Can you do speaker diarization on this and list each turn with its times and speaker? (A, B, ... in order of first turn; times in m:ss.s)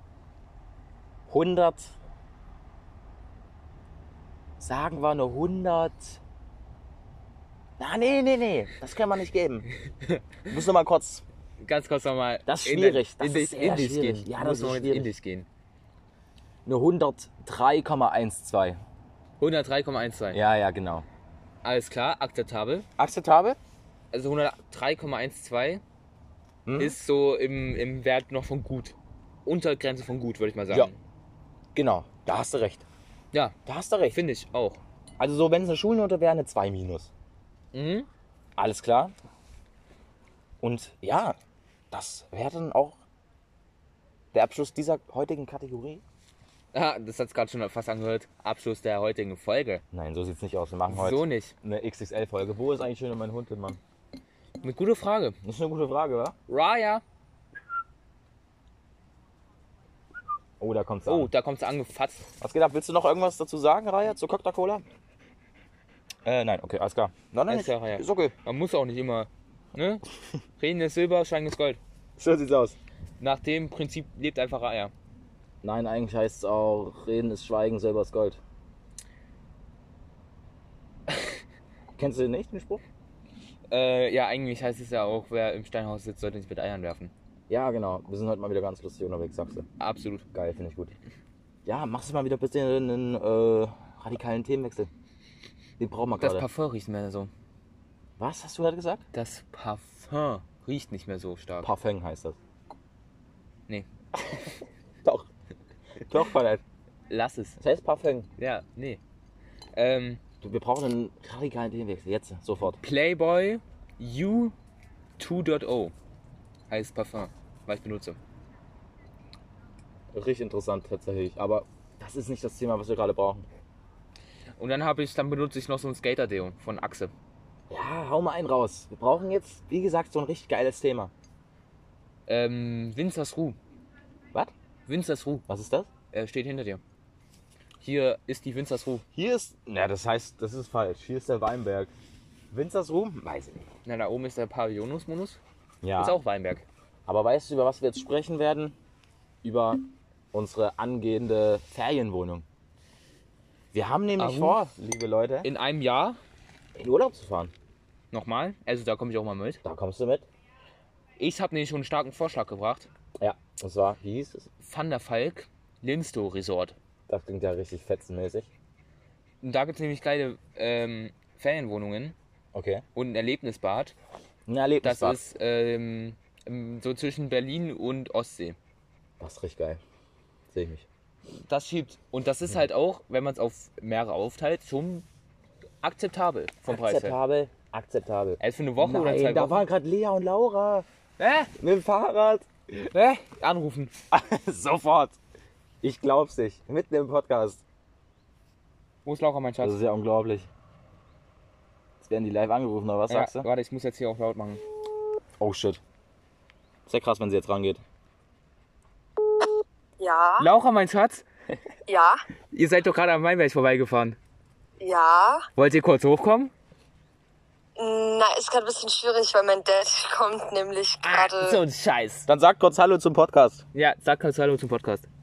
0:01.3-0:02.0 A
0:04.6-0:06.2 A
0:07.8-0:09.7 A
0:10.5-0:11.2 A
0:11.6-0:15.5 B
0:12.5-0:15.1 A
0:16.6-0:18.8 A
0:19.4-0:20.4 B
0:20.3-0:21.1 A
0:21.6-0:22.9 B
0:23.0-0:23.6 A
0:24.1-0:25.8 B
0:26.6-0:27.0 A
0:26.8-0:31.0 B
0:31.8-0:32.8 A
0:33.6-0:34.2 A
0:34.1-0:34.8 B
0:35.2-0:37.1 A
0:37.7-0:38.1 B
0:38.6-0:39.1 A
0:40.6-0:41.4 A
0:41.9-0:43.0 A
0:44.3-0:46.0 A
0:46.7-0:49.8 B
0:49.9-0:53.8 A
0:50.9-0:51.5 B
0:54.6-0:55.4 B
0:55.4-0:56.4 A
0:56.5-0:57.0 B
1:00.6-1:01.3 A
1:01.1-1:02.3 B
1:02.4-1:04.8 A
1:06.2-1:08.3 A
1:07.5-1:10.0 B
1:10.6-1:11.8 B
1:12.2-1:12.8 A
1:13.2-1:14.9 B
1:15.6-1:18.4 A
1:21.1-1:21.4 B
1:22.0-1:22.8 A
1:23.7-1:27.1 B
1:27.5-1:29.6 A
1:29.8-1:30.2 B
1:30.3-1:31.0 A
1:31.6-1:34.9 A
1:35.8-1:36.5 A
1:36.2-1:37.3 B
1:38.2-1:39.0 A
1:39.1-1:41.7 B
1:41.6-1:42.4 A
1:46.1-1:46.6 A
1:47.1-1:47.6 B
1:47.6-1:48.3 A
1:48.4-1:49.0 B
1:49.8-1:50.2 B
1:50.4-1:52.8 A
1:52.8-1:54.6 B
1:55.2-1:55.9 B
1:56.7-1:58.2 B
2:00.1-2:03.5 A
2:04.6-2:07.1 B
2:07.7-2:11.1 A
2:12.3-2:13.6 B
2:14.9-2:15.4 B
2:15.5-2:15.9 A
2:16.1-2:16.8 B
2:17.8-2:19.0 B
2:19.1-2:21.9 A
2:22.5-2:23.6 A
2:23.8-2:25.4 B
2:25.8-2:26.2 A
2:26.0-2:26.6 B
2:27.1-2:28.8 A
2:29.4-2:32.4 A
2:33.7-2:35.5 A
2:34.2-2:34.6 B
2:35.4-2:36.2 B
2:36.8-2:37.5 A
2:38.1-2:39.6 B
2:39.6-2:40.3 A
2:41.2-2:42.9 B
2:43.2-2:44.5 A
2:44.6-2:46.8 B
2:47.1-2:48.5 A
2:49.4-2:52.2 B
2:52.5-2:52.8 A
2:53.0-2:54.0 B
2:54.5-2:55.2 A
2:54.8-2:58.6 B
2:59.2-2:59.8 A
3:00.5-3:00.9 A
3:01.5-3:05.1 B
3:05.8-3:07.2 B
3:06.7-3:10.9 A
3:08.4-3:09.6 B
3:11.2-3:11.5 B
3:11.6-3:12.9 A
3:12.9-3:13.9 B
3:14.1-3:15.2 A
3:15.8-3:17.6 A
3:19.0-3:19.8 B
3:19.6-3:20.5 A
3:22.0-3:23.5 A
3:23.1-3:24.6 B
3:25.4-3:25.8 A
3:26.9-3:27.8 A
3:30.0-3:30.5 C
3:30.4-3:31.2 B
3:31.9-3:32.2 C
3:32.5-3:34.2 B
3:34.8-3:35.5 C
3:35.6-3:36.5 B
3:37.8-3:41.6 C
3:41.0-3:42.3 B
3:42.3-3:43.6 A
3:43.7-3:45.1 B